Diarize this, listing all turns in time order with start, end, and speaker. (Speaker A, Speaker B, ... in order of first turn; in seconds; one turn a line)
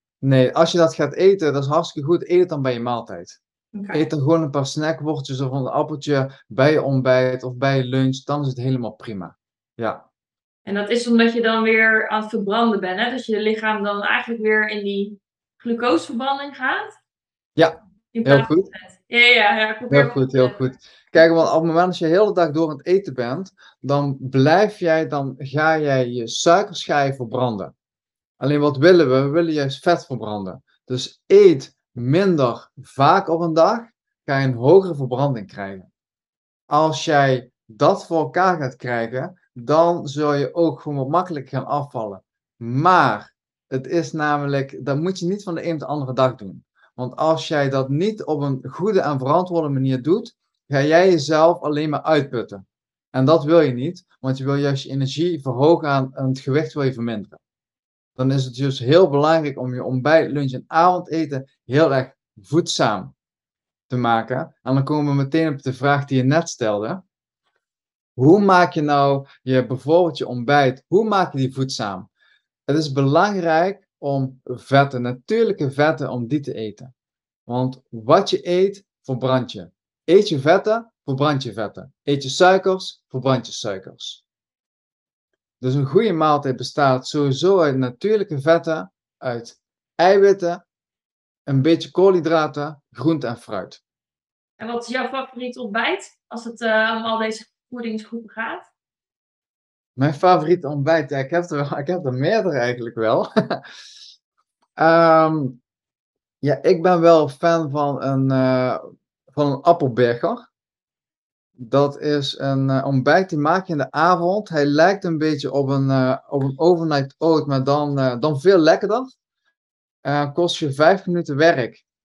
Speaker A: 0.2-3.4
Speaker B: 3.7-4.0
Speaker A: 3.9-10.1
Speaker B: 10.7-16.9
Speaker A: 17.6-18.7
Speaker B: 18.1-20.6
Speaker A: 19.9-27.7
Speaker A: 28.4-35.9
Speaker A: 36.7-57.4
Speaker A: 58.2-63.1
Speaker A: 63.9-67.0
Speaker A: 68.2-72.1
Speaker A: 72.7-76.9
Speaker A: 77.5-84.2
Speaker A: 85.6-90.6
Speaker A: 91.5-93.8
Speaker B: 94.6-98.7
Speaker A: 100.0-103.6
Speaker A: 104.8-105.6
Speaker A: 106.4-108.8
Speaker A: 109.3-110.4
Speaker A: 111.6-119.1
Speaker A: 120.0-121.8